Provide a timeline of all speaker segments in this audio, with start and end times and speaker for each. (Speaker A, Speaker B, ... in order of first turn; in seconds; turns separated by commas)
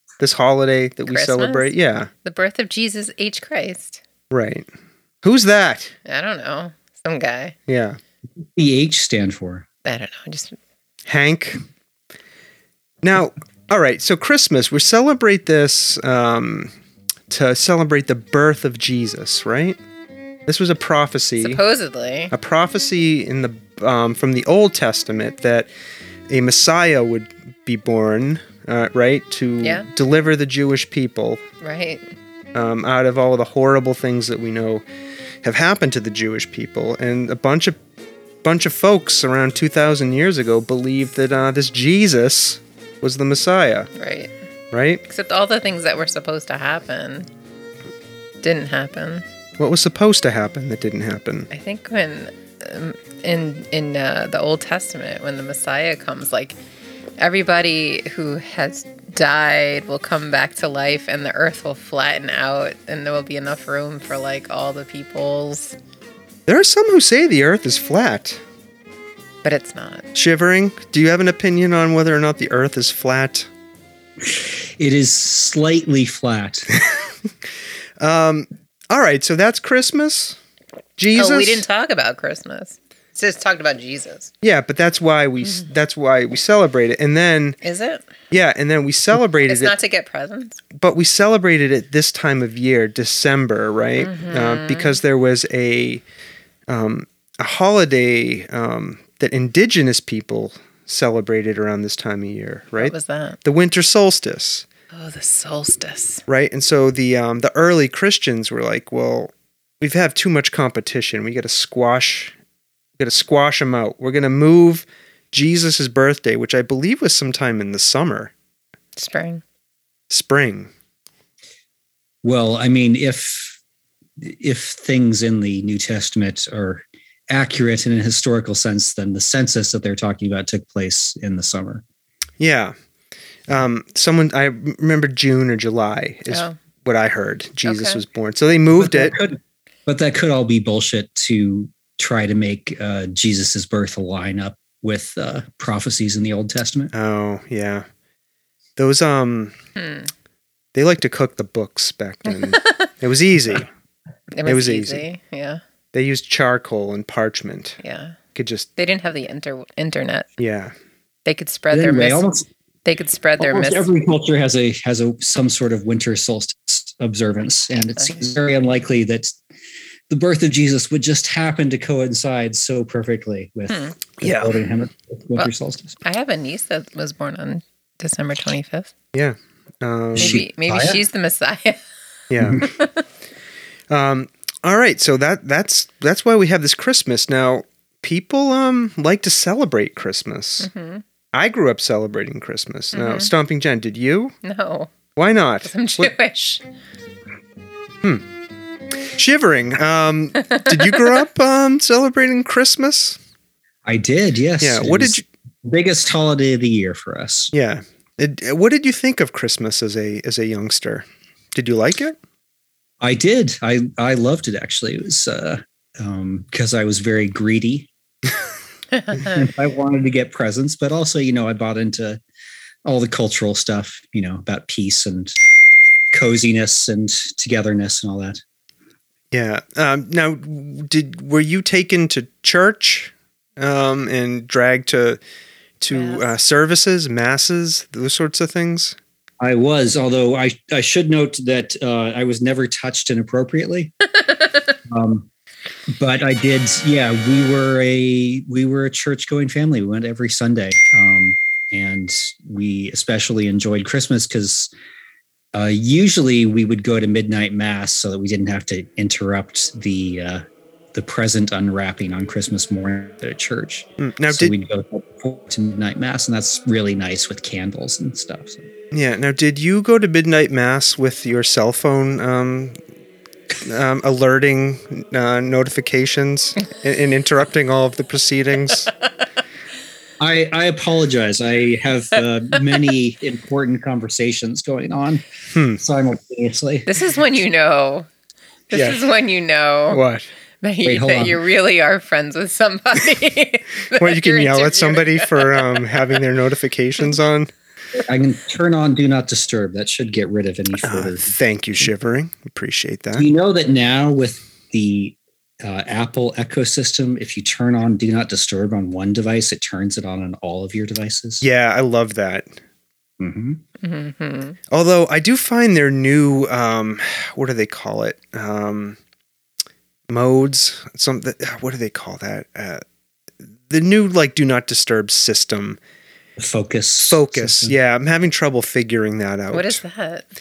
Speaker A: 0.2-2.1, Speaker B: 1.1-1.7, Speaker B: 2.2-4.0, Speaker A: 4.3-4.7, Speaker A: 5.2-5.9, Speaker B: 6.0-7.5, Speaker A: 7.7-8.0, Speaker C: 8.4-9.7, Speaker B: 9.8-10.6, Speaker A: 11.1-11.6, Speaker A: 13.0-16.7, Speaker A: 17.3-19.8, Speaker A: 20.4-21.6, Speaker B: 21.4-22.3, Speaker A: 22.3-25.7, Speaker A: 26.3-31.4, Speaker B: 29.6-29.9, Speaker B: 31.6-32.1, Speaker A: 32.5-34.9, Speaker A: 35.4-37.8, Speaker A: 38.4-43.9, Speaker B: 43.9-44.3, Speaker A: 44.7-45.0, Speaker B: 45.1-47.3, Speaker B: 48.4-49.2, Speaker A: 49.6-51.5, Speaker B: 51.5-56.6, Speaker B: 57.2-65.8, Speaker A: 66.5-68.4, Speaker B: 69.4-70.1, Speaker A: 70.1-73.5, Speaker C: 74.2-76.7, Speaker A: 78.0-80.4, Speaker A: 81.0-81.6, Speaker B: 81.2-84.3, Speaker A: 84.4-87.6, Speaker B: 87.6-88.0, Speaker A: 88.3-89.8, Speaker B: 89.5-90.6, Speaker A: 90.8-96.0, Speaker B: 94.0-95.0, Speaker A: 96.7-104.7, Speaker B: 102.8-103.4, Speaker B: 104.9-106.2, Speaker A: 106.3-112.3, Speaker A: 113.0-118.3, Speaker B: 119.0-119.4, Speaker A: 120.1-120.7, Speaker C: 122.2-123.6, Speaker C: 124.2-131.8, Speaker A: 132.4-132.8, Speaker A: 133.5-139.1, Speaker B: 137.6-138.0, Speaker C: 138.8-146.9, Speaker A: 146.9-147.8, Speaker A: 148.8-149.6, Speaker B: 149.8-150.1, Speaker A: 150.8-153.7, Speaker B: 154.3-155.6, Speaker A: 154.4-155.1, Speaker A: 155.9-157.8, Speaker B: 157.8-158.2, Speaker A: 158.3-158.7, Speaker B: 158.8-160.3, Speaker A: 160.4-160.7, Speaker B: 161.2-162.3, Speaker C: 161.7-162.4, Speaker B: 162.8-163.9, Speaker C: 163.4-169.4, Speaker B: 167.9-168.3, Speaker C: 170.1-176.0, Speaker A: 174.2-174.5, Speaker B: 176.0-178.9, Speaker A: 179.1-180.4, Speaker C: 180.2-181.0, Speaker B: 180.2-181.8, Speaker A: 182.3-182.7, Speaker B: 182.6-183.0, Speaker A: 183.9-190.7, Speaker B: 190.6-191.0, Speaker A: 191.3-194.3, Speaker B: 192.9-193.3, Speaker B: 194.4-194.9, Speaker A: 195.2-196.1, Speaker B: 195.6-196.6, Speaker A: 199.2-203.2, Speaker B: 200.5-201.1, Speaker C: 203.8-207.5, Speaker A: 204.6-205.2, Speaker A: 207.5-212.2, Speaker C: 213.0-217.9, Speaker C: 219.1-222.2, Speaker C: 222.8-225.3, Speaker C: 226.1-228.4, Speaker A: 229.3-235.2, Speaker A: 235.8-238.9, Speaker B: 235.9-236.3, Speaker C: 239.4-243.9, Speaker C: 244.9-245.3, Speaker C: 245.9-254.7, Speaker C: 255.5-268.7, Speaker A: 264.0-264.6, Speaker A: 268.9-272.8, Speaker A: 273.6-278.9, Speaker C: 280.2-285.2, Speaker A: 285.5-285.8, Speaker C: 285.8-286.9, Speaker B: 286.9-288.1, Speaker B: 288.7-290.0, Speaker A: 289.9-290.3, Speaker B: 290.6-295.9, Speaker C: 290.8-291.4, Speaker A: 293.9-297.5, Speaker C: 298.1-301.4, Speaker A: 300.8-303.3, Speaker C: 303.1-311.4, Speaker A: 311.4-312.6, Speaker C: 313.2-313.6, Speaker B: 313.8-314.6, Speaker A: 314.7-319.0, Speaker A: 320.1-322.8, Speaker A: 323.7-325.8, Speaker C: 326.4-327.7, Speaker A: 327.1-329.8, Speaker B: 329.5-330.3